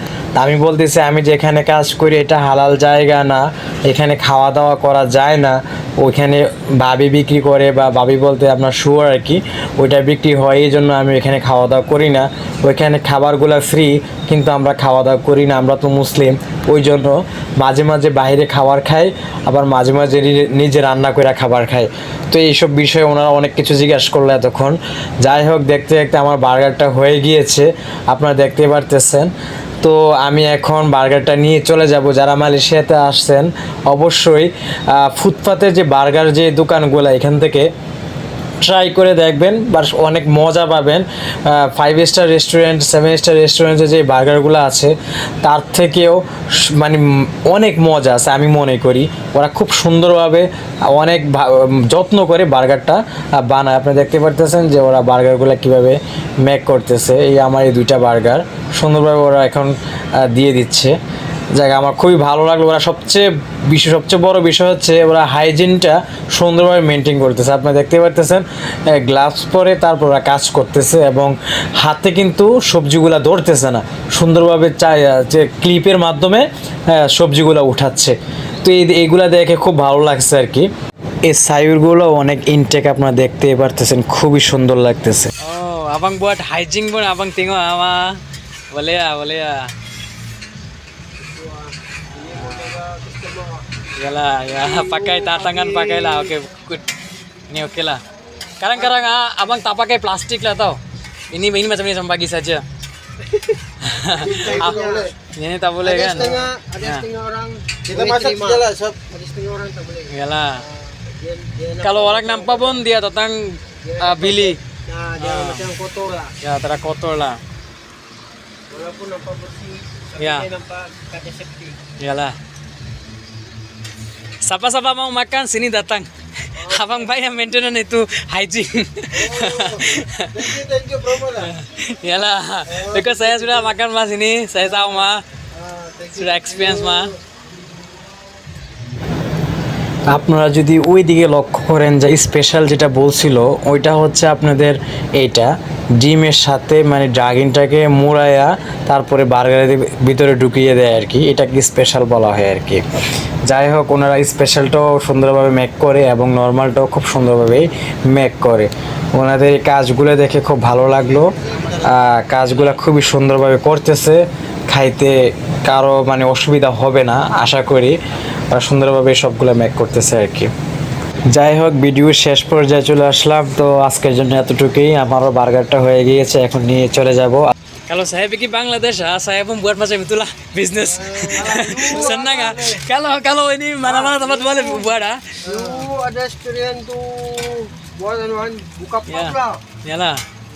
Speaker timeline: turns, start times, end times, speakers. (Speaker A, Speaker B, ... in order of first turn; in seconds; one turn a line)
Speaker A: 0.3-37.7
Speaker A: 38.6-61.0
Speaker A: 61.5-80.7
Speaker A: 81.3-85.3
Speaker B: 85.4-88.1
Speaker B: 88.7-89.6
Speaker C: 91.2-93.6
Speaker B: 92.3-92.8
Speaker B: 94.0-96.9
Speaker C: 94.5-96.3
Speaker B: 97.5-98.0
Speaker B: 98.6-100.8
Speaker B: 101.3-102.7
Speaker C: 103.2-103.6
Speaker B: 103.8-104.8
Speaker D: 104.2-105.2
Speaker C: 104.2-105.1
Speaker B: 105.4-107.0
Speaker C: 105.8-112.8
Speaker D: 106.0-106.4
Speaker D: 107.9-109.0
Speaker B: 110.1-110.6
Speaker B: 111.8-114.6
Speaker C: 113.8-116.3
Speaker B: 115.2-115.7
Speaker B: 116.4-117.4
Speaker C: 118.7-121.8
Speaker B: 120.2-120.5
Speaker B: 122.0-122.4
Speaker B: 124.4-130.5
Speaker C: 126.6-127.1
Speaker D: 129.1-131.5
Speaker B: 131.4-135.2
Speaker D: 132.7-133.7
Speaker D: 134.6-137.2
Speaker B: 136.2-137.1
Speaker A: 140.1-152.8
Speaker A: 153.5-168.0
Speaker D: 161.1-162.1
Speaker A: 168.5-170.5
Speaker A: 171.3-177.5
Speaker B: 177.9-185.4
Speaker D: 180.8-182.8
Speaker C: 181.3-182.4
Speaker C: 183.8-184.9
Speaker D: 185.4-185.9
Speaker C: 185.4-189.6
Speaker B: 189.1-190.2